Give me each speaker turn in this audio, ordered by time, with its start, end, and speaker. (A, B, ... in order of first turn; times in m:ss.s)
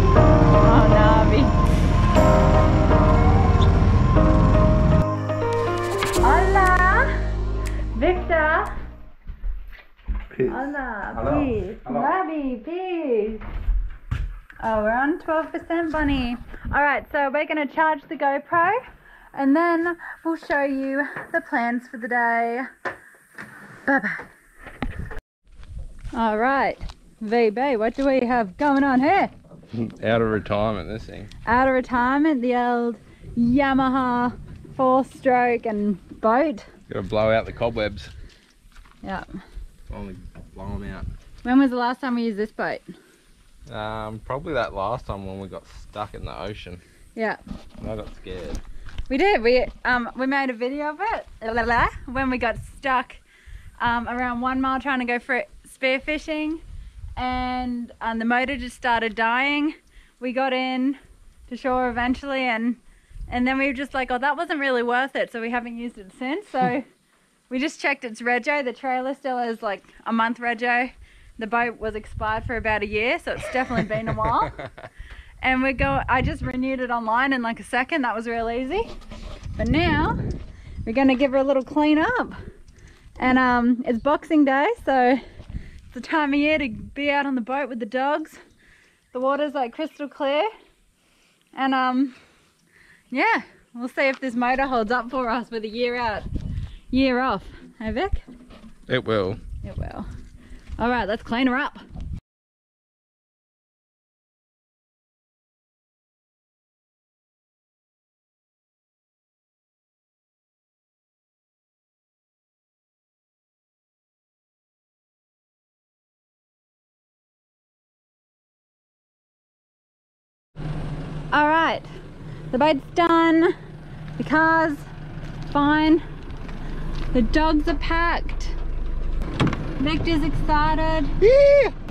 0:00.6-0:01.6 A
0:06.2-0:07.3 A
0:07.9-0:08.7 A
0:10.3-0:10.6 B
0:10.4-0:13.4 A
0:11.2-0:12.1 B
0:14.6-0:18.8 A
0:19.3-0:22.7 A
0:23.8-0:24.3 A
0:26.1-0:29.3 A
0:29.7-0:31.3 B
0:31.4-0:36.7 A
0:36.9-0:38.1 B
0:39.9-0:41.1 B
0:41.4-0:42.8 A
0:43.7-0:46.8 B
0:47.8-0:48.6 B
0:49.1-0:53.2 A
0:53.8-0:56.6 A
0:57.2-1:06.8 A
1:07.5-1:14.6 A
1:15.4-1:18.9 A
1:19.6-1:20.2 A
1:20.8-1:22.4 A
1:23.2-1:25.2 A
1:25.9-1:28.4 A
1:29.1-1:30.5 A
1:31.5-1:32.2 A
1:33.1-1:36.3 A
1:36.9-1:38.2 A
1:38.9-1:39.4 B
1:39.6-1:40.1 A
1:40.8-1:41.8 A
2:01.3-2:01.9 A
2:02.5-2:03.5 A
2:04.2-2:04.9 A
2:05.5-2:06.0 A
2:07.1-2:08.6 A
2:09.8-2:11.2 A
2:11.2-2:11.7 B